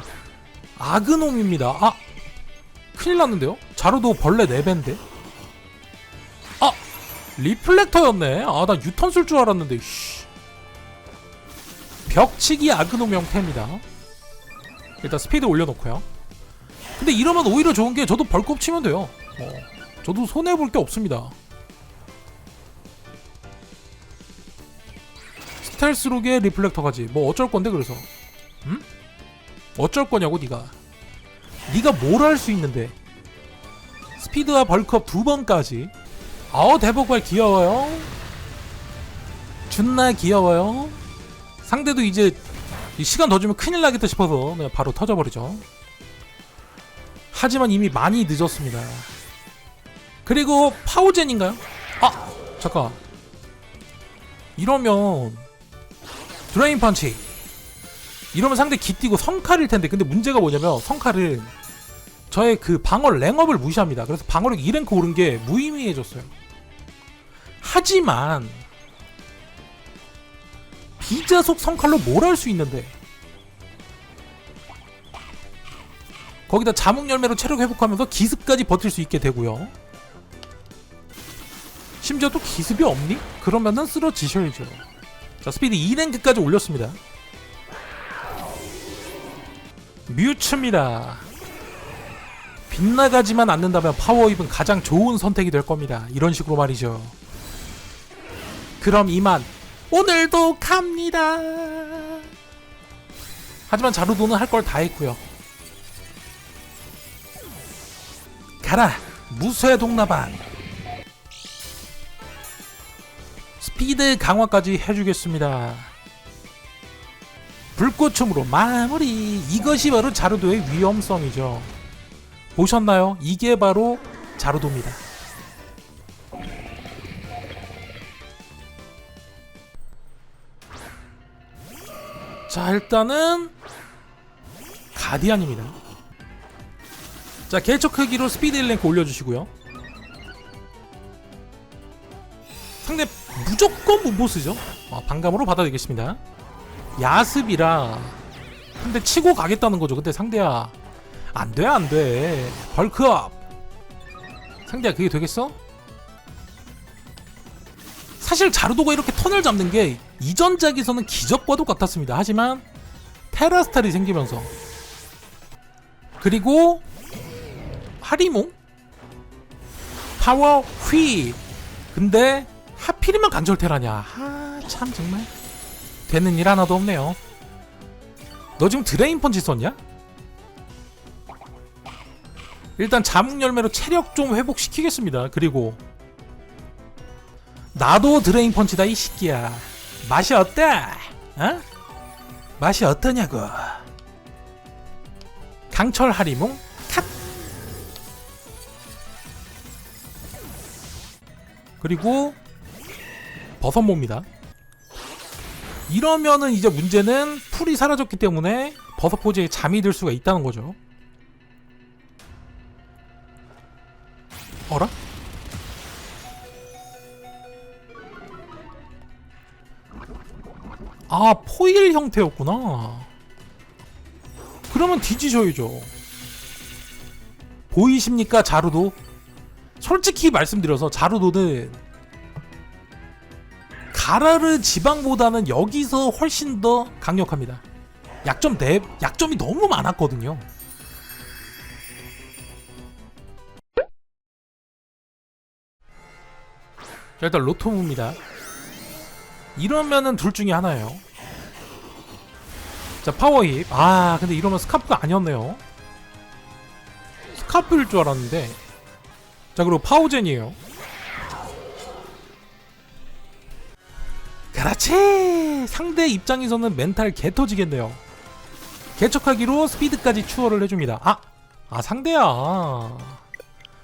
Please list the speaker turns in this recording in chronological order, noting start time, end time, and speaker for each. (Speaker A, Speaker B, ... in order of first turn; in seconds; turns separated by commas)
Speaker A: 0.8-2.0, Speaker A: 2.9-5.0, Speaker A: 7.4-10.3, Speaker A: 12.1-13.8, Speaker A: 15.0-16.0, Speaker A: 17.0-21.3, Speaker A: 25.6-28.1, Speaker A: 29.8-30.7, Speaker A: 31.7-32.9, Speaker A: 34.2-35.9, Speaker A: 36.5-38.1, Speaker A: 39.7-41.0, Speaker A: 41.6-42.4, Speaker A: 43.0-45.6, Speaker A: 47.3-49.1, Speaker A: 50.2-53.0, Speaker A: 54.5-55.5, Speaker A: 56.5-57.3, Speaker A: 58.3-61.5, Speaker A: 62.3-66.3, Speaker A: 67.6-68.6, Speaker A: 71.0-72.9, Speaker A: 76.5-79.7, Speaker A: 82.0-84.8, Speaker A: 85.4-87.0, Speaker A: 90.1-91.3, Speaker A: 92.7-97.1, Speaker A: 98.8-102.3, Speaker A: 103.7-105.2, Speaker A: 108.6-110.4, Speaker A: 113.6-115.9, Speaker A: 117.7-121.7, Speaker A: 122.5-125.0, Speaker A: 132.5-133.5, Speaker A: 134.9-135.7, Speaker A: 137.5-139.5, Speaker A: 142.8-146.2, Speaker A: 147.0-148.2, Speaker A: 148.8-150.7, Speaker A: 151.3-153.4, Speaker A: 154.7-155.6, Speaker A: 158.2-162.6, Speaker A: 163.3-164.5, Speaker A: 166.2-166.8, Speaker A: 168.0-168.5, Speaker A: 170.2-171.4, Speaker A: 171.9-175.3, Speaker A: 176.1-177.2, Speaker A: 178.6-179.8, Speaker A: 182.8-185.8, Speaker A: 187.7-191.6, Speaker A: 192.6-193.8, Speaker A: 195.7-197.1, Speaker A: 201.8-202.4, Speaker A: 203.6-204.2, Speaker A: 205.9-210.8, Speaker A: 214.7-214.9, Speaker A: 221.1-223.1, Speaker A: 224.7-225.9, Speaker A: 227.7-229.0, Speaker A: 229.8-231.8, Speaker A: 233.9-237.6, Speaker A: 238.2-240.4, Speaker A: 247.2-248.2, Speaker A: 249.5-251.0, Speaker A: 253.0-255.6, Speaker A: 257.3-258.6, Speaker A: 259.5-260.6, Speaker A: 264.5-268.0, Speaker A: 269.0-273.2